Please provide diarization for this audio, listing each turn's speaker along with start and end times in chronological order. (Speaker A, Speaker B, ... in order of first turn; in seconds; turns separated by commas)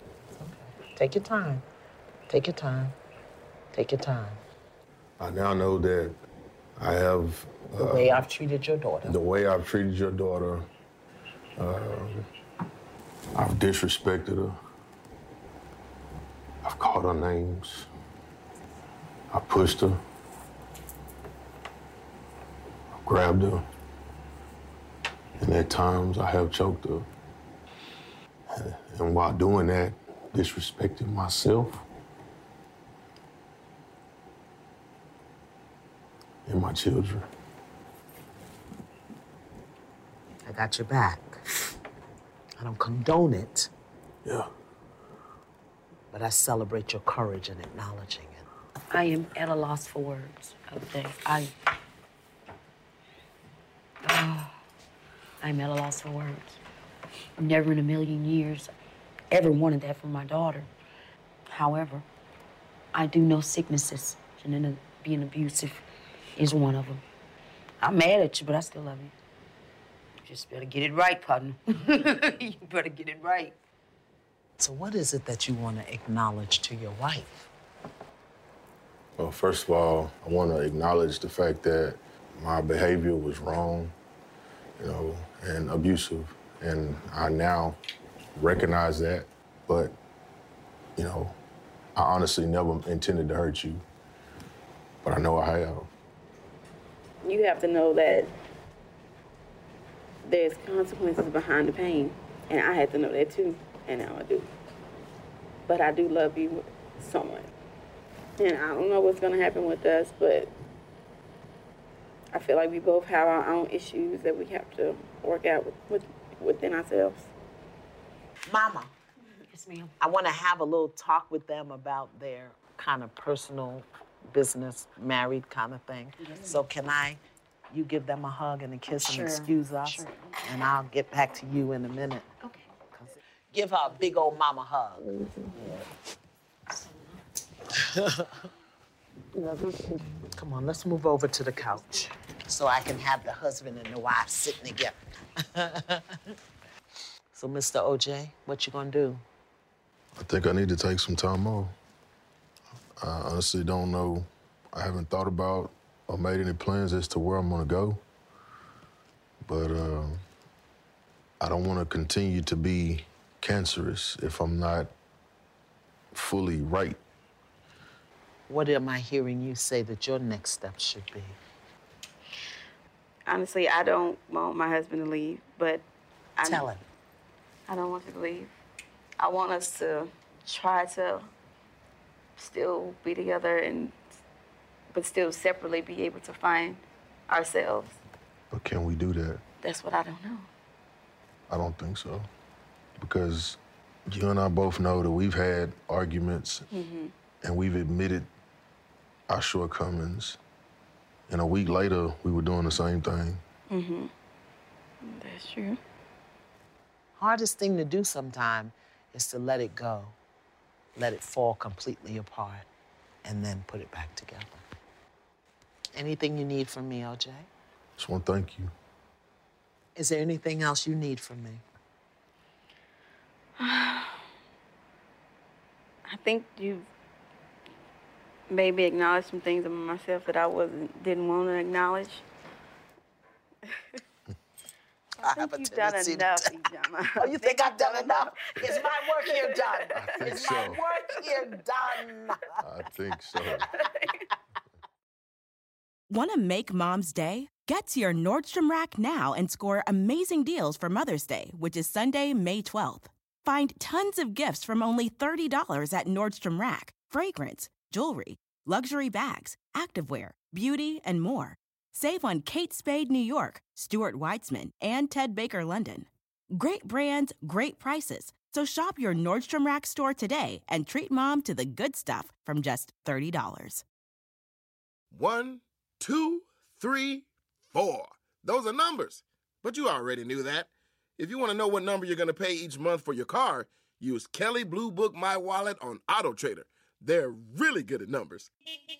Speaker A: 0.4-1.6, Speaker A: 2.3-3.0, Speaker A: 3.7-4.4, Speaker B: 5.2-6.2, Speaker B: 6.8-8.2, Speaker A: 7.8-9.2, Speaker B: 9.0-10.7, Speaker B: 11.6-12.3, Speaker B: 13.3-14.6, Speaker B: 16.6-17.9, Speaker B: 19.3-20.0, Speaker B: 23.0-23.7, Speaker B: 25.4-27.1, Speaker B: 28.5-31.8, Speaker B: 36.5-37.3, Speaker A: 40.5-41.4, Speaker A: 42.6-43.7, Speaker A: 46.1-48.5, Speaker C: 48.9-51.5, Speaker C: 54.0-54.6, Speaker C: 55.4-56.6, Speaker C: 57.4-58.7, Speaker C: 59.3-60.7, Speaker C: 61.5-62.0, Speaker C: 62.9-65.9, Speaker C: 66.4-67.0, Speaker C: 67.8-69.1, Speaker C: 70.2-73.6, Speaker A: 74.6-77.5, Speaker B: 79.2-84.0, Speaker B: 84.8-87.8, Speaker B: 88.4-90.0, Speaker B: 91.0-91.4, Speaker B: 92.0-93.8, Speaker B: 95.0-95.9, Speaker D: 97.2-98.3, Speaker D: 100.3-104.5, Speaker D: 105.7-107.5, Speaker D: 108.4-110.5, Speaker D: 112.3-117.3, Speaker A: 118.5-118.9, Speaker C: 119.5-119.9, Speaker A: 120.0-132.3, Speaker C: 126.2-126.6, Speaker C: 128.9-130.2, Speaker C: 132.4-132.7, Speaker A: 132.9-135.1, Speaker A: 137.7-138.4, Speaker C: 139.4-139.8, Speaker A: 140.3-146.3, Speaker A: 147.3-149.2, Speaker B: 150.2-151.8, Speaker B: 153.0-158.0, Speaker B: 159.4-160.2, Speaker B: 161.4-164.9, Speaker B: 166.1-167.0, Speaker A: 168.5-171.4, Speaker D: 173.3-175.9, Speaker D: 176.4-176.7, Speaker A: 176.4-176.9, Speaker D: 177.7-178.5, Speaker D: 179.2-181.3, Speaker D: 182.4-184.0, Speaker D: 184.9-188.0, Speaker B: 188.5-189.4, Speaker D: 189.6-190.5, Speaker B: 191.5-192.3, Speaker B: 193.0-196.7, Speaker D: 196.7-197.1, Speaker B: 197.4-198.3, Speaker B: 199.3-200.4, Speaker B: 201.3-203.4, Speaker D: 203.7-204.1, Speaker D: 205.0-205.8, Speaker A: 207.2-210.2, Speaker A: 211.0-212.7, Speaker A: 213.2-214.6, Speaker A: 215.9-217.5, Speaker B: 218.0-218.7, Speaker A: 220.0-221.6, Speaker D: 223.6-224.2, Speaker D: 226.1-226.9, Speaker D: 228.5-232.2, Speaker D: 233.7-234.0, Speaker D: 235.2-241.5, Speaker A: 235.2-236.5, Speaker A: 237.2-242.6, Speaker B: 240.0-240.8, Speaker B: 242.6-243.7, Speaker D: 243.7-244.3, Speaker E: 246.1-273.8, Speaker F: 275.1-288.5